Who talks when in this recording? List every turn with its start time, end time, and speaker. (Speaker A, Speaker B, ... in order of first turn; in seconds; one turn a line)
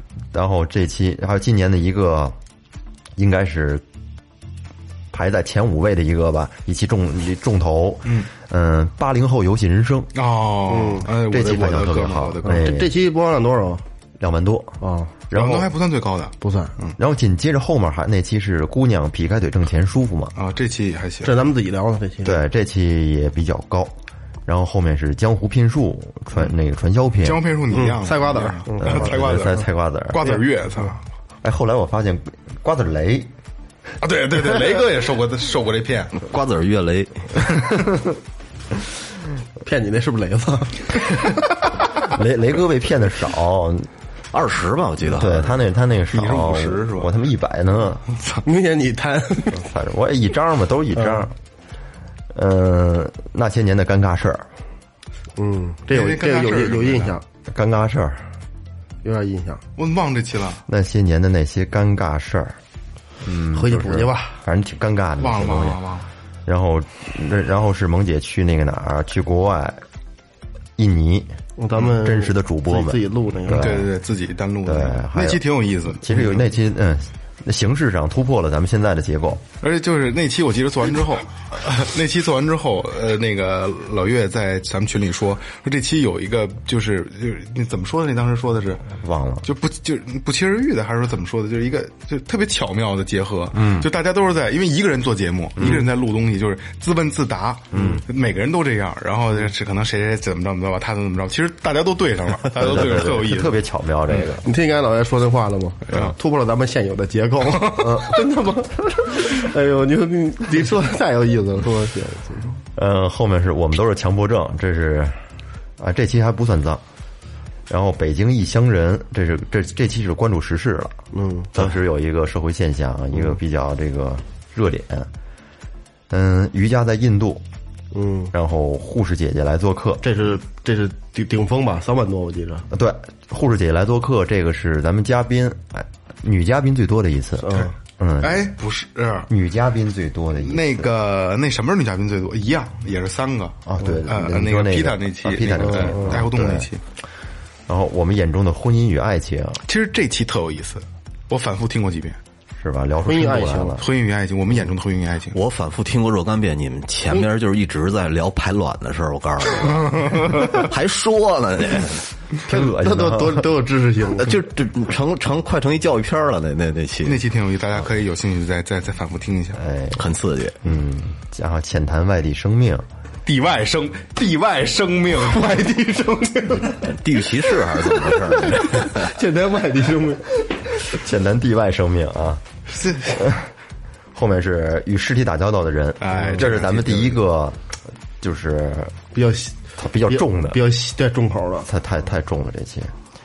Speaker A: 0.3-2.4
Speaker A: 3.2-3.8
Speaker A: 5.1-10.1
Speaker B: 10.1-12.7
Speaker C: 10.7-11.1
Speaker A: 11.2-12.9
Speaker C: 12.4-13.8
Speaker A: 14.2-14.8
Speaker C: 14.8-15.1
Speaker A: 15.3-15.7
Speaker B: 15.3-17.0
Speaker C: 16.4-16.7
Speaker A: 17.0-20.4
Speaker B: 20.4-21.4
Speaker C: 21.2-22.4
Speaker A: 22.2-23.9
Speaker A: 24.5-27.4
Speaker B: 27.2-31.0
Speaker C: 27.7-29.7
Speaker A: 28.8-30.4
Speaker A: 31.4-33.3
Speaker B: 34.0-36.2
Speaker D: 36.2-37.5
Speaker C: 39.6-41.2
Speaker A: 42.0-43.9
Speaker D: 44.3-45.5
Speaker A: 45.1-48.0
Speaker B: 46.1-47.1
Speaker C: 48.5-49.7
Speaker A: 49.5-51.3
Speaker C: 51.0-51.2
Speaker A: 52.3-54.5
Speaker C: 55.4-57.2
Speaker B: 55.9-57.1
Speaker A: 57.5-58.2
Speaker C: 59.0-59.6
Speaker B: 59.8-60.6
Speaker A: 60.7-62.6
Speaker A: 63.2-65.8
Speaker C: 63.5-64.4
Speaker B: 65.2-66.1
Speaker A: 66.5-69.8
Speaker A: 70.8-73.9
Speaker C: 71.6-73.8
Speaker B: 73.5-76.4
Speaker A: 74.7-79.4
Speaker B: 79.6-88.8
Speaker A: 89.0-89.5
Speaker B: 89.4-103.6
Speaker A: 93.5-93.9
Speaker A: 95.6-95.8
Speaker A: 97.7-98.0
Speaker A: 102.6-104.5
Speaker C: 104.4-112.5
Speaker B: 105.9-106.1
Speaker B: 107.7-108.0
Speaker A: 112.8-115.2
Speaker A: 115.8-116.8
Speaker A: 117.7-121.0
Speaker C: 121.1-121.7
Speaker A: 121.5-125.1
Speaker A: 126.1-127.4
Speaker C: 127.9-128.3
Speaker A: 128.3-130.0
Speaker C: 130.0-132.7
Speaker A: 132.7-138.5
Speaker C: 137.4-137.7
Speaker B: 138.2-139.3
Speaker A: 139.3-140.9
Speaker B: 140.4-146.8
Speaker A: 143.7-146.7
Speaker C: 145.6-146.2
Speaker A: 147.7-149.6
Speaker B: 149.7-152.2
Speaker A: 152.6-153.8
Speaker C: 153.1-153.8
Speaker B: 153.8-155.4
Speaker D: 155.3-162.1
Speaker A: 162.5-163.5
Speaker C: 162.5-164.4
Speaker D: 164.2-167.2
Speaker B: 167.1-169.6
Speaker A: 169.6-170.1
Speaker D: 170.0-170.6
Speaker A: 170.6-172.9
Speaker B: 173.2-176.7
Speaker D: 176.7-179.1
Speaker C: 178.5-180.5
Speaker A: 180.9-182.4
Speaker B: 182.7-183.3
Speaker A: 184.1-187.6
Speaker B: 186.0-187.2
Speaker A: 188.2-189.0
Speaker C: 189.1-191.7
Speaker A: 189.8-190.6
Speaker A: 191.7-192.9